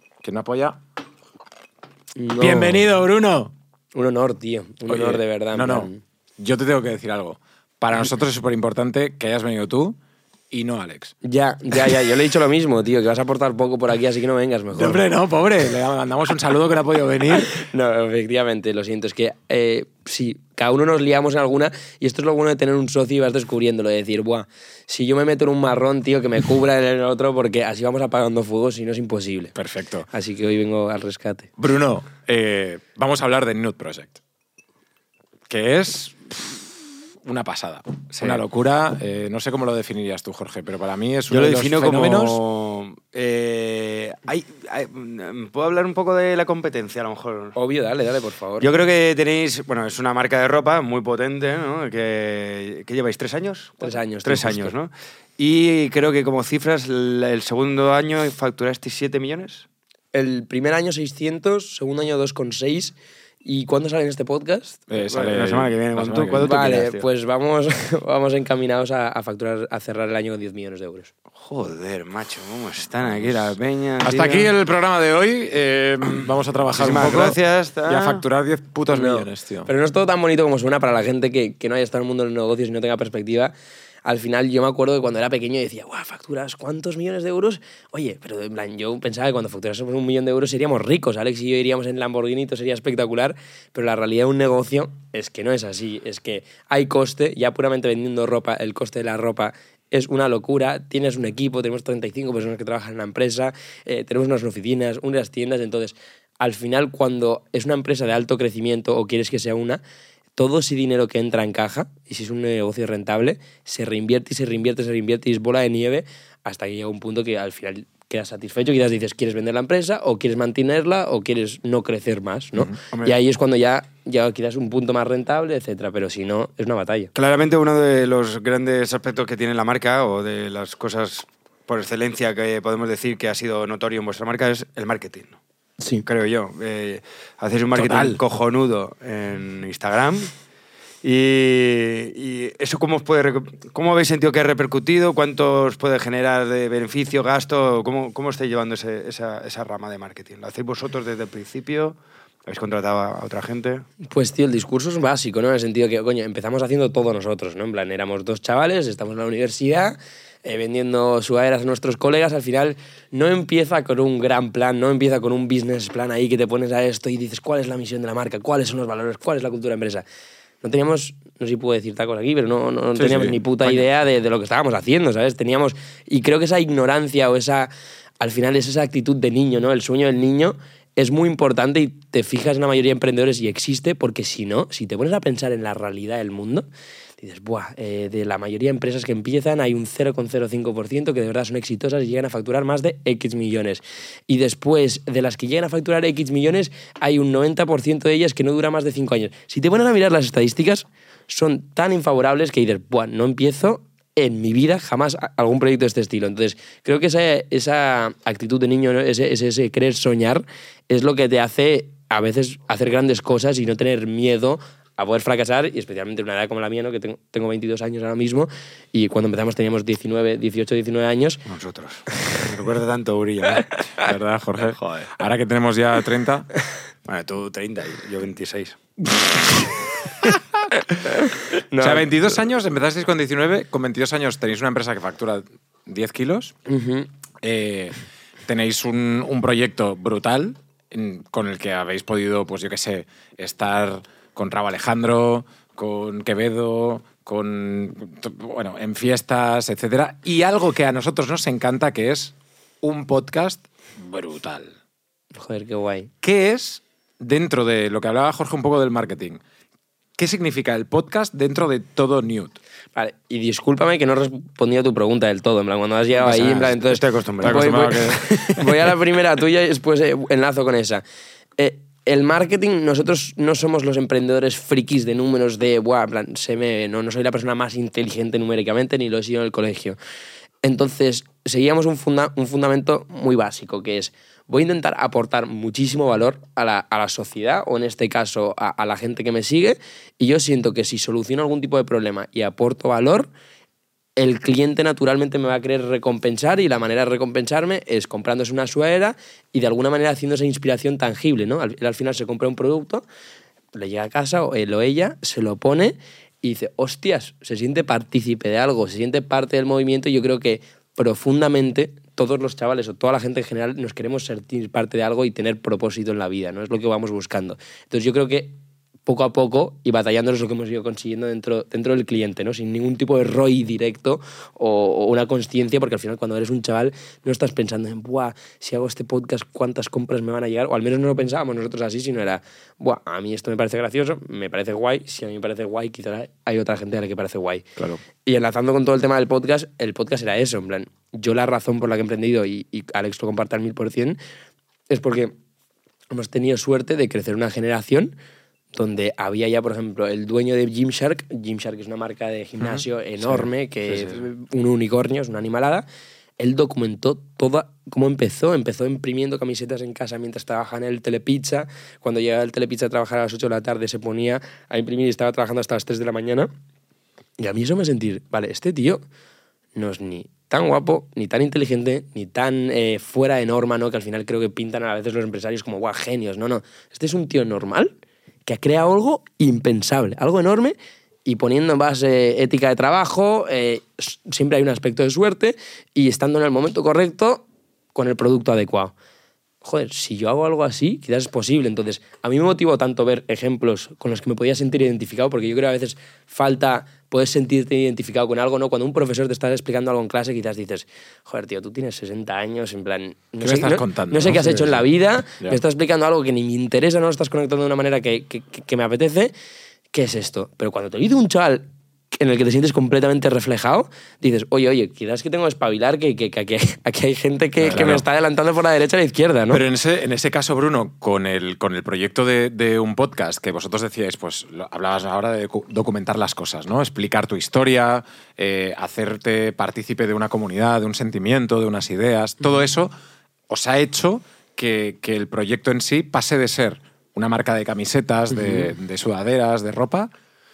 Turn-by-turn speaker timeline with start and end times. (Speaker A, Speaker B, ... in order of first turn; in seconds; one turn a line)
Speaker A: 0.2-0.8
Speaker B: 2.1-2.9
Speaker A: 2.4-3.5
Speaker B: 3.9-6.0
Speaker A: 4.9-10.0
Speaker A: 10.5-11.1
Speaker B: 11.2-15.0
Speaker A: 11.7-12.0
Speaker A: 14.7-17.5
Speaker B: 17.3-29.5
Speaker A: 29.5-30.1
Speaker B: 30.1-31.5
Speaker A: 31.6-34.2
Speaker A: 35.5-42.4
Speaker C: 38.1-38.4
Speaker C: 41.3-47.5
Speaker B: 47.5-48.7
Speaker C: 48.6-59.6
Speaker B: 53.8-54.7
Speaker B: 60.1-64.8
Speaker A: 64.9-66.7
Speaker C: 65.0-67.0
Speaker B: 66.4-71.1
Speaker C: 71.4-74.5
Speaker A: 74.0-79.7
Speaker C: 76.7-78.2
Speaker B: 78.9-83.5
Speaker B: 84.0-109.8
Speaker B: 110.4-127.1
Speaker C: 122.9-123.2
Speaker C: 127.1-135.4
Speaker C: 136.0-140.3
Speaker A: 137.7-138.2
Speaker C: 141.0-151.9
Speaker C: 152.5-153.9
Speaker B: 154.1-170.0
Speaker B: 170.6-186.7
Speaker A: 172.9-173.8
Speaker B: 187.2-221.4
Speaker C: 221.5-223.7
Speaker B: 223.6-224.1
Speaker A: 224.0-226.5
Speaker C: 227.1-228.8
Speaker B: 231.2-232.1
Speaker A: 231.8-236.5
Speaker B: 236.7-237.1
Speaker A: 237.4-237.9
Speaker A: 238.5-254.7
Speaker B: 255.3-256.1
Speaker A: 256.2-259.4
Speaker A: 260.2-262.6
Speaker B: 262.9-271.0
Speaker C: 266.2-268.6
Speaker A: 267.4-268.2
Speaker B: 271.6-280.0
Speaker B: 280.6-293.3
Speaker B: 294.2-303.0
Speaker B: 303.7-318.5
Speaker B: 319.1-337.6
Speaker B: 338.2-344.2
Speaker B: 344.9-345.3
Speaker B: 346.1-348.1
Speaker B: 348.7-355.8
Speaker B: 356.4-366.5
Speaker B: 367.4-369.0
Speaker B: 369.7-377.9
Speaker B: 378.4-388.9
Speaker B: 389.6-409.3
Speaker A: 403.4-404.9
Speaker B: 409.9-419.6
Speaker A: 417.6-418.0
Speaker A: 419.5-432.9
Speaker A: 433.5-440.1
Speaker B: 438.4-438.7